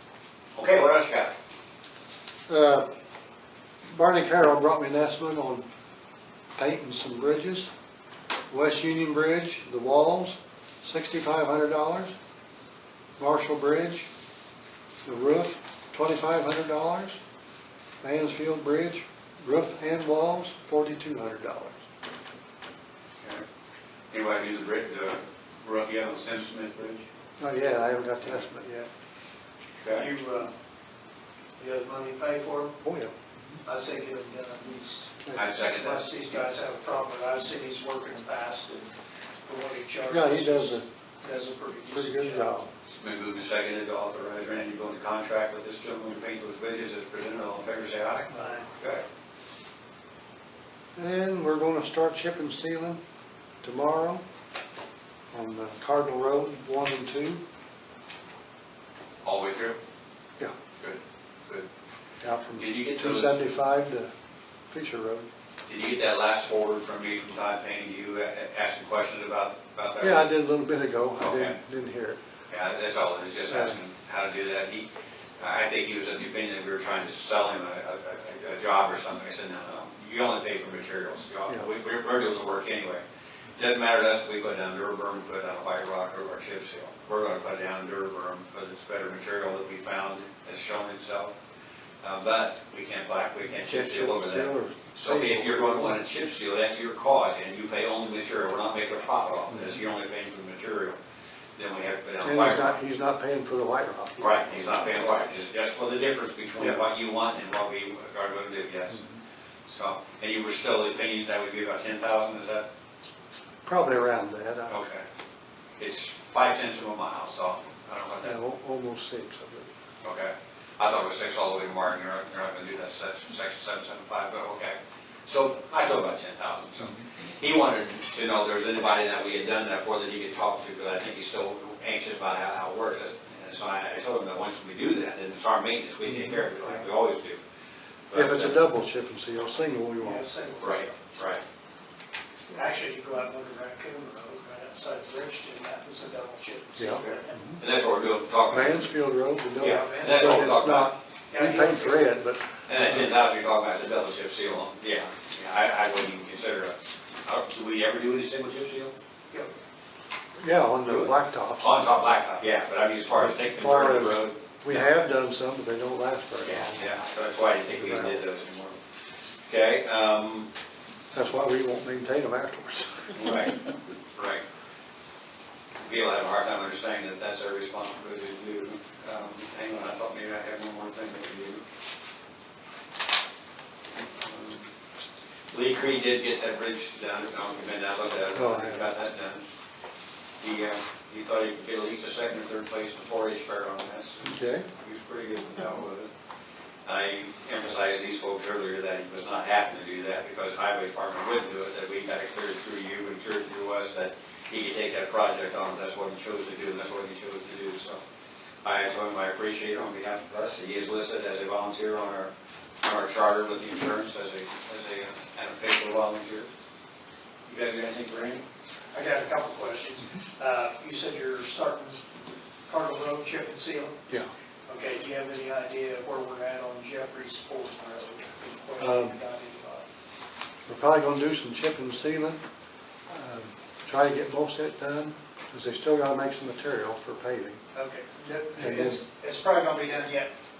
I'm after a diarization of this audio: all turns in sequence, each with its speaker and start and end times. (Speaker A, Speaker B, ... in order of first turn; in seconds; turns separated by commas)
Speaker A: 0.5-1.3, Speaker B: 2.5-2.9, Speaker B: 3.9-5.6, Speaker B: 6.5-7.7, Speaker B: 8.5-12.1, Speaker B: 13.2-14.1, Speaker B: 15.0-17.1, Speaker B: 18.0-21.8, Speaker A: 24.1-27.0, Speaker B: 27.4-28.9, Speaker A: 29.8-30.1, Speaker C: 29.9-30.5, Speaker C: 31.6-32.8, Speaker B: 32.8-33.1, Speaker C: 33.6-35.2, Speaker A: 35.3-36.0, Speaker C: 35.8-38.9, Speaker C: 39.4-42.6, Speaker B: 40.1-40.8, Speaker B: 41.9-42.7, Speaker A: 42.9-49.0, Speaker C: 48.3-48.6, Speaker B: 51.0-53.0, Speaker B: 53.6-54.2, Speaker B: 55.3-57.4, Speaker A: 59.2-59.8, Speaker A: 60.8-61.7, Speaker B: 62.2-64.1, Speaker A: 62.6-63.4, Speaker B: 64.7-65.3, Speaker A: 65.7-70.3, Speaker B: 70.0-72.2, Speaker A: 71.2-71.5, Speaker A: 72.5-74.9, Speaker B: 73.5-73.8, Speaker A: 75.4-83.0, Speaker A: 83.5-91.3, Speaker A: 92.0-101.0, Speaker B: 93.5-95.9, Speaker A: 101.5-102.8, Speaker B: 102.2-104.4, Speaker A: 104.2-109.0, Speaker A: 109.7-112.7, Speaker B: 113.7-114.8, Speaker A: 114.7-115.0, Speaker A: 115.8-118.3, Speaker B: 118.2-119.7, Speaker A: 120.0-137.4, Speaker B: 136.1-136.8, Speaker A: 138.1-138.6, Speaker B: 138.1-140.2, Speaker C: 140.0-141.0, Speaker A: 140.6-141.4, Speaker C: 142.5-147.4, Speaker B: 146.8-147.6, Speaker A: 147.0-148.8, Speaker B: 148.5-153.0, Speaker A: 149.6-150.9, Speaker C: 149.6-150.3, Speaker C: 151.3-152.0, Speaker A: 152.7-158.9, Speaker B: 160.4-162.0, Speaker A: 160.8-164.8, Speaker B: 163.2-166.8, Speaker A: 166.4-168.8, Speaker B: 167.7-168.2, Speaker A: 169.5-170.5, Speaker B: 171.1-173.3, Speaker A: 173.1-173.6, Speaker A: 174.1-174.4, Speaker A: 175.8-181.6, Speaker A: 184.2-184.7, Speaker A: 185.5-189.4, Speaker B: 188.3-188.9, Speaker A: 190.4-196.1, Speaker B: 194.2-194.7, Speaker A: 196.8-208.0, Speaker A: 208.6-212.3, Speaker A: 212.8-216.5, Speaker A: 217.5-218.4, Speaker C: 218.9-222.0, Speaker C: 222.7-223.9, Speaker C: 224.7-229.8, Speaker B: 228.8-229.2, Speaker B: 230.7-232.4, Speaker B: 233.1-237.6, Speaker C: 237.7-240.3, Speaker B: 238.6-239.0